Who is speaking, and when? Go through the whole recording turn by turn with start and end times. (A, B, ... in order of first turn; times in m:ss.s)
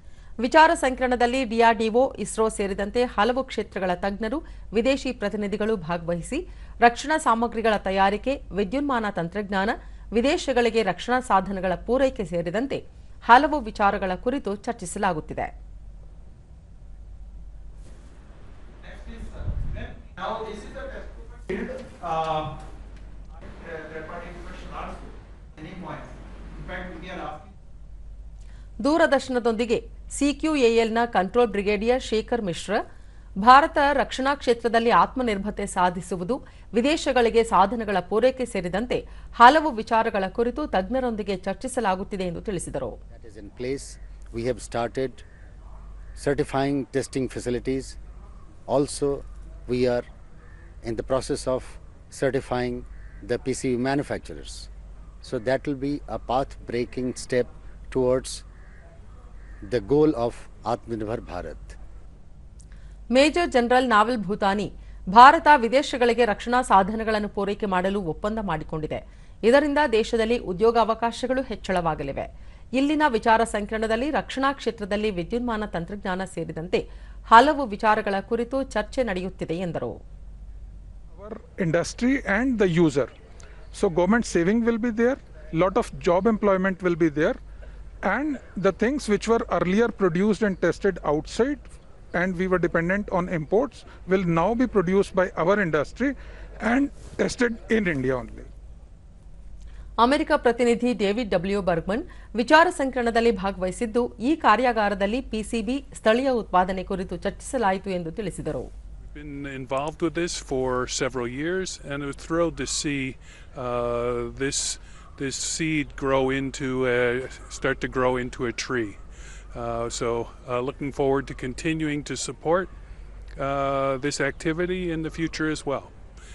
0:00.4-0:15.5 A
0:18.8-0:22.5 B
0:23.6-0:24.9 B
0:25.6-0:26.0 B
0:26.6-0:27.4 B
0:28.8-0:32.8 A
0:33.4-0:43.0 A
0:43.1-0:45.2 C
0:46.2-0:48.0 C
0:48.7-0:50.0 C
0:50.8-0:54.7 C
0:55.2-0:58.4 C
0:59.6-1:01.8 C
1:03.1-1:20.0 A
1:21.1-1:23.1 D
1:23.7-1:27.4 D
1:28.0-1:38.5 D
1:40.0-1:48.7 A
1:49.0-1:59.0 E
1:59.5-2:02.7 E
2:03.4-2:05.9 E